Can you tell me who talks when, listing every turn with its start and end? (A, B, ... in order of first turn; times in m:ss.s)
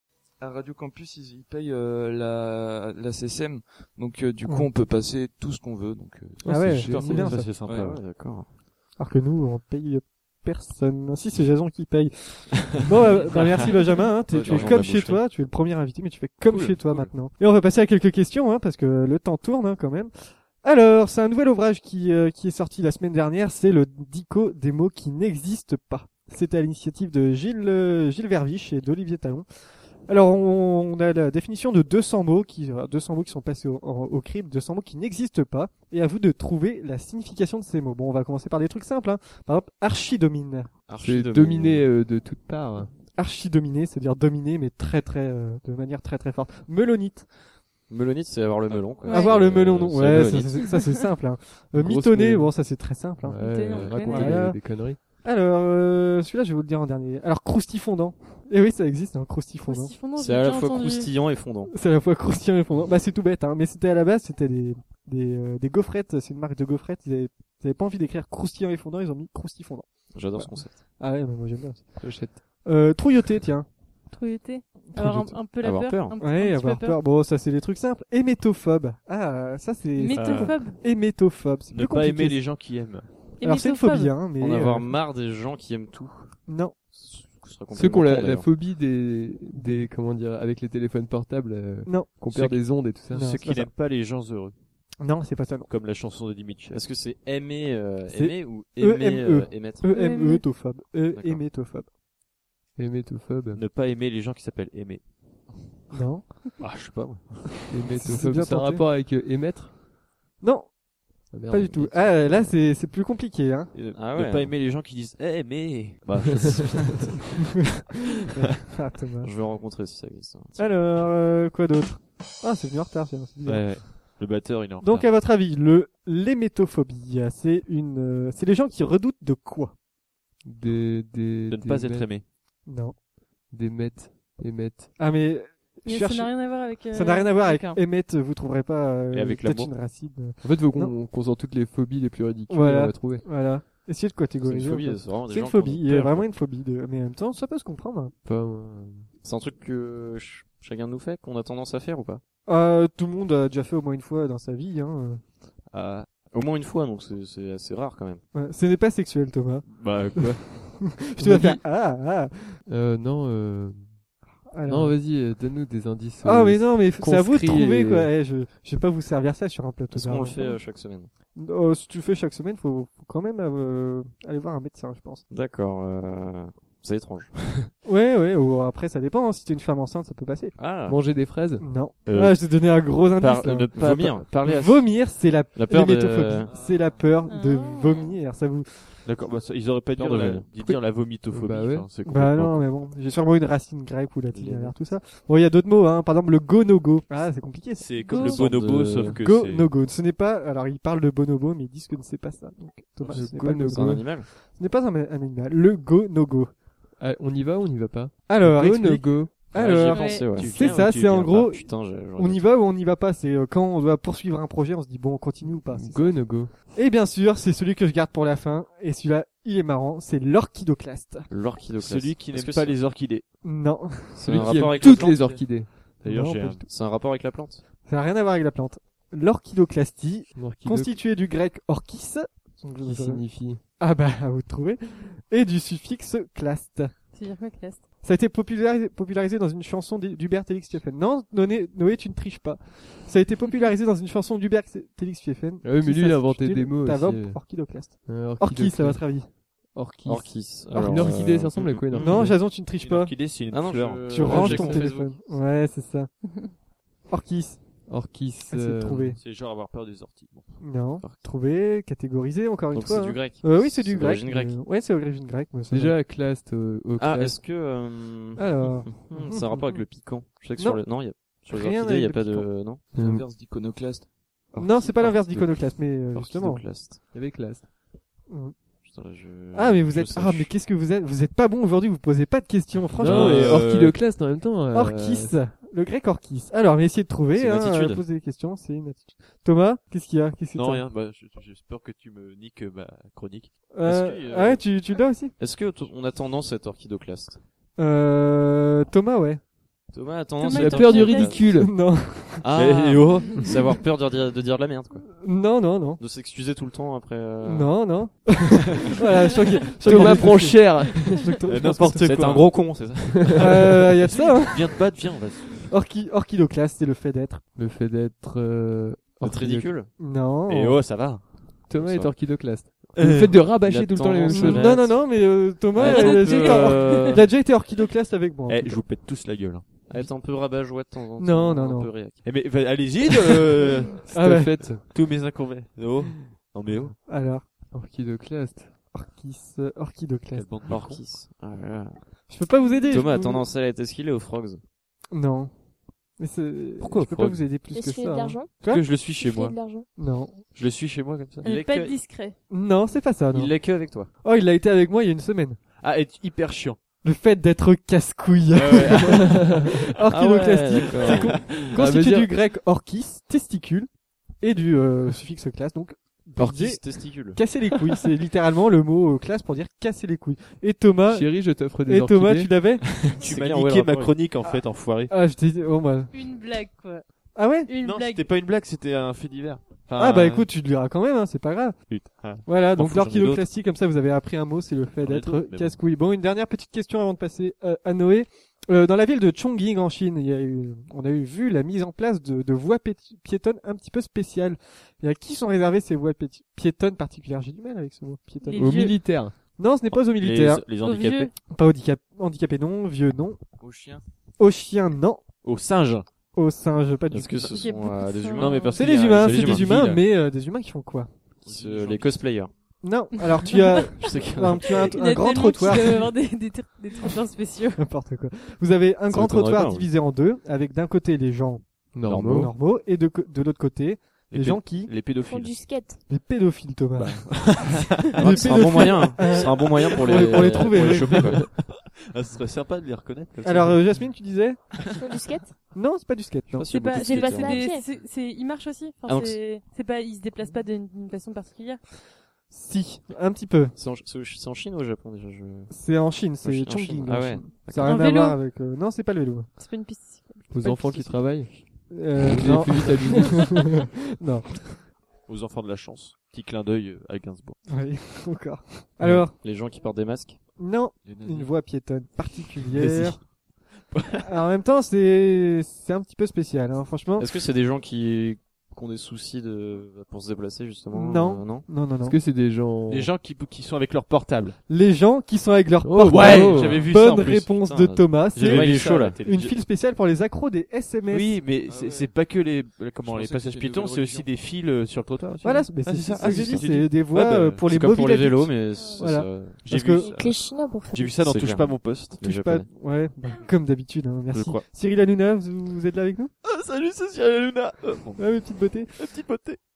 0:00.4-0:07.9 A
0:06.4-0:07.4 B
0:06.5-0:07.5 C
0:06.8-0:08.0 D
0:07.7-0:08.5 E
0:09.0-0:29.5 C
0:14.3-0:15.2 E
0:14.3-0:15.2 D
0:16.5-0:17.1 D
0:30.0-0:40.7 C
0:40.9-0:41.9 E
0:41.0-0:42.9 B
0:43.1-0:47.3 C
0:47.9-0:50.8 E
0:49.0-0:49.4 F
0:49.1-1:00.0 C
0:50.5-0:51.0 F
0:51.7-0:52.6 B
0:53.2-0:55.0 B
0:53.4-0:54.4 F
0:59.7-1:01.1 F
1:00.2-1:01.7 E
1:01.7-1:13.7 C
1:10.1-1:10.8 E
1:12.0-1:12.4 B
1:14.1-1:17.0 F
1:14.9-1:15.4 C
1:15.6-1:16.1 E
1:16.2-1:22.5 C
1:20.0-1:20.8 F
1:20.1-1:20.7 D
1:21.7-1:23.1 D
1:23.3-1:24.9 C
1:23.4-1:24.2 F
1:24.4-1:26.4 E
1:26.5-1:26.7 C
1:26.9-1:28.5 E
1:27.7-1:33.4 B
1:29.6-1:29.8 C
1:31.8-1:32.2 C
1:32.2-1:34.6 D
1:33.1-1:33.7 C
1:35.0-1:35.7 C
1:35.7-1:36.8 D
1:36.7-1:39.8 E
1:38.1-1:41.9 C
1:39.9-1:40.4 F
1:41.1-1:41.4 E
1:42.8-1:43.6 B
1:43.5-1:45.1 D
1:45.9-1:46.4 C
1:46.6-1:47.7 D
1:47.7-1:49.8 B
1:47.9-1:48.8 C
1:50.4-1:50.8 C
1:51.3-1:52.5 B
1:51.5-1:53.7 C
1:53.7-1:57.5 D
1:53.9-1:54.6 E
1:58.3-1:59.3 C
1:59.2-2:00.7 E
2:00.6-2:04.3 C
2:03.4-2:05.1 D
2:04.8-2:09.7 C
2:10.4-2:12.2 B
2:11.5-2:12.2 D
2:12.6-2:13.0 C
2:13.5-2:15.0 B
2:15.0-2:20.9 C
2:15.8-2:17.8 F
2:19.1-2:19.8 D
2:20.4-2:23.3 B
2:22.5-2:28.1 C
2:24.4-2:26.2 E
2:28.2-2:29.1 B
2:29.2-2:32.2 E
2:32.4-2:35.2 C
2:35.7-2:36.1 D
2:36.1-2:38.2 E
2:38.3-2:42.6 C
2:39.6-2:41.0 D
2:41.2-2:41.6 B
2:42.7-2:43.9 B
2:44.5-2:45.0 C
2:44.7-2:48.1 B
2:46.2-2:50.6 C
2:49.9-2:51.1 E
2:51.3-2:55.2 C
2:55.3-2:57.7 E
2:57.8-3:00.6 C
3:00.6-3:01.0 E
3:00.8-3:01.7 B
3:01.6-3:03.7 C
3:02.0-3:04.8 D
3:03.7-3:05.0 E
3:04.4-3:09.1 C
3:05.5-3:06.5 E
3:07.3-3:08.2 F
3:09.0-3:12.6 D
3:09.9-3:10.5 E
3:11.2-3:11.9 B
3:12.0-3:18.5 C
3:14.3-3:14.7 E
3:17.8-3:19.7 D
3:18.0-3:18.4 F
3:18.2-3:19.2 E
3:19.2-3:26.5 C
3:23.0-3:24.3 E
3:23.1-3:24.1 B
3:27.0-3:29.5 B
3:28.3-3:41.3 C
3:29.5-3:32.4 E
3:29.6-3:31.5 D
3:29.9-3:30.3 F
3:35.7-3:36.6 B
3:41.3-3:42.8 E
3:41.8-3:43.3 D
3:43.4-3:44.5 C
3:44.1-3:45.4 E
3:44.2-3:45.9 B
3:46.0-3:46.6 D
3:46.0-3:46.6 C
3:46.6-3:47.6 E
3:47.8-3:53.2 C
3:50.3-3:50.9 B
3:52.8-3:53.6 B
3:53.8-3:56.9 C
3:57.1-3:57.8 F
3:58.0-4:09.3 C
4:05.6-4:12.4 B
4:10.0-4:12.2 E
4:12.0-4:13.1 C
4:12.6-4:14.8 D
4:13.5-4:15.2 E
4:14.1-4:16.5 C
4:16.2-4:16.5 F
4:17.1-4:17.8 C
4:17.9-4:19.2 B
4:18.5-4:19.2 C
4:19.2-4:20.6 D
4:20.6-4:26.0 C
4:22.7-4:24.6 E
4:25.7-4:27.4 B
4:27.0-4:32.8 E
4:28.4-4:29.9 C
4:30.6-4:32.5 C
4:32.9-4:33.2 B
4:33.0-4:34.4 A
4:34.6-4:36.6 C
4:34.7-4:37.0 E
4:37.1-4:37.7 B
4:38.3-4:38.5 C
4:38.8-4:40.5 E
4:39.5-4:43.7 C
4:42.9-4:45.4 B
4:43.0-4:44.1 D
4:44.7-4:50.8 C
4:47.4-4:48.0 E
4:50.5-4:53.7 D
4:53.7-4:55.3 C
4:53.8-4:54.6 E
4:55.4-4:57.4 E
4:57.8-4:59.4 C
4:59.9-5:01.6 E
5:00.4-5:01.4 F
5:00.5-5:01.8 B
5:01.6-5:02.4 C
5:02.4-5:05.1 E
5:02.5-5:03.5 D
5:05.1-5:06.0 C
5:06.0-5:07.8 E
5:07.4-5:12.2 C
5:09.8-5:11.3 B
5:09.9-5:10.4 D
5:11.4-5:15.7 D
5:11.9-5:13.4 E
5:13.4-5:14.9 C
5:15.6-5:17.4 C
5:17.5-5:19.8 B
5:19.2-5:19.9 E
5:20.0-5:20.8 C
5:20.5-5:22.1 D
5:21.7-5:24.8 B
5:22.9-5:23.5 D
5:23.6-5:25.1 E
5:24.3-5:28.8 C
5:25.8-5:27.2 E
5:25.8-5:27.2 D
5:28.5-5:29.8 D
5:29.9-5:32.2 E
5:31.2-5:31.9 C
5:32.2-5:34.1 D
5:34.1-5:34.9 B
5:34.1-5:34.7 C
5:34.8-5:37.0 D
5:37.1-5:37.5 C
5:37.7-5:38.7 B
5:38.9-5:40.5 C
5:40.3-5:41.0 D
5:40.7-5:42.0 E
5:42.3-5:43.4 C
5:42.9-5:44.6 E
5:45.1-5:45.5 C
5:46.2-5:48.9 C
5:46.8-5:47.4 D
5:47.7-5:48.5 G
5:48.6-5:49.6 D
5:49.1-5:49.9 G
5:50.0-5:50.4 C
5:50.6-5:52.0 D
5:51.4-5:52.4 F
5:52.5-5:53.5 C
5:53.3-5:54.1 E
5:54.2-5:55.6 C
5:55.8-5:56.8 D
5:57.0-6:03.9 C
5:58.5-5:59.8 D
5:59.2-5:59.7 B
6:00.1-6:01.5 E
6:01.0-6:01.7 D
6:01.7-6:02.3 B
6:04.4-6:12.9 C
6:06.4-6:07.4 E
6:11.1-6:12.5 B
6:13.0-6:15.1 D
6:13.2-6:14.2 E
6:15.1-6:16.1 C
6:16.1-6:17.0 F
6:17.4-6:17.7 C
6:17.6-6:18.2 F
6:17.8-6:20.5 D
6:20.0-6:39.0 C
6:21.9-6:23.4 D
6:25.0-6:25.8 D
6:38.4-6:38.9 F
6:38.5-6:39.4 B
6:39.6-6:40.6 C
6:40.0-6:41.3 D
6:40.8-6:41.3 F
6:41.5-6:43.4 C
6:43.6-6:44.0 A
6:44.4-6:45.2 C
6:45.4-6:46.0 D
6:46.3-6:47.6 C
6:47.1-6:49.9 E
6:47.5-6:48.8 F
6:48.4-6:50.0 D
6:48.7-6:51.1 C
6:51.4-6:52.2 A
6:51.5-6:52.5 E
6:52.8-6:56.1 C
6:53.5-6:53.8 F
6:54.0-6:55.0 E
6:54.8-6:57.8 F
6:57.8-7:01.6 C
6:59.1-6:59.9 E
7:01.9-7:02.5 B
7:02.0-7:02.5 E
7:02.3-7:04.9 C
7:04.3-7:05.7 D
7:05.2-7:06.0 G
7:06.1-7:11.5 C
7:07.0-7:08.8 D
7:08.1-7:11.4 E
7:09.8-7:14.0 D
7:13.4-7:14.8 C
7:14.9-7:15.5 G
7:15.7-7:16.7 C
7:16.5-7:17.6 E
7:16.7-7:21.8 F
7:16.9-7:17.8 G
7:19.1-7:19.4 E
7:22.5-7:23.7 C
7:23.8-7:25.7 E
7:25.7-7:29.5 C
7:26.4-7:28.1 E
7:27.8-7:28.4 F
7:29.6-7:31.1 F
7:30.5-7:31.5 B
7:31.9-7:34.8 C
7:32.2-7:33.6 B
7:35.3-7:37.6 D
7:37.7-7:39.3 C
7:39.3-7:40.4 E
7:40.6-7:43.2 C
7:41.0-7:41.5 A
7:42.7-7:43.2 D
7:43.9-7:44.3 D
7:44.2-7:47.3 C
7:47.2-7:51.7 E
7:50.9-7:52.2 C
7:52.0-7:53.1 B
7:52.9-7:54.6 D
7:54.7-8:01.4 C
7:55.8-7:56.8 B
7:56.0-7:57.5 D
7:56.2-7:59.2 E
7:58.3-7:59.5 D
8:01.1-8:07.6 D
8:01.6-8:02.1 A
8:03.0-8:04.3 A
8:05.4-8:10.1 C
8:07.4-8:09.6 E
8:09.6-8:12.2 D
8:10.0-8:11.1 G
8:11.2-8:12.7 E
8:12.2-8:16.3 C
8:14.3-8:14.6 D
8:16.4-8:19.6 D
8:18.2-8:19.1 C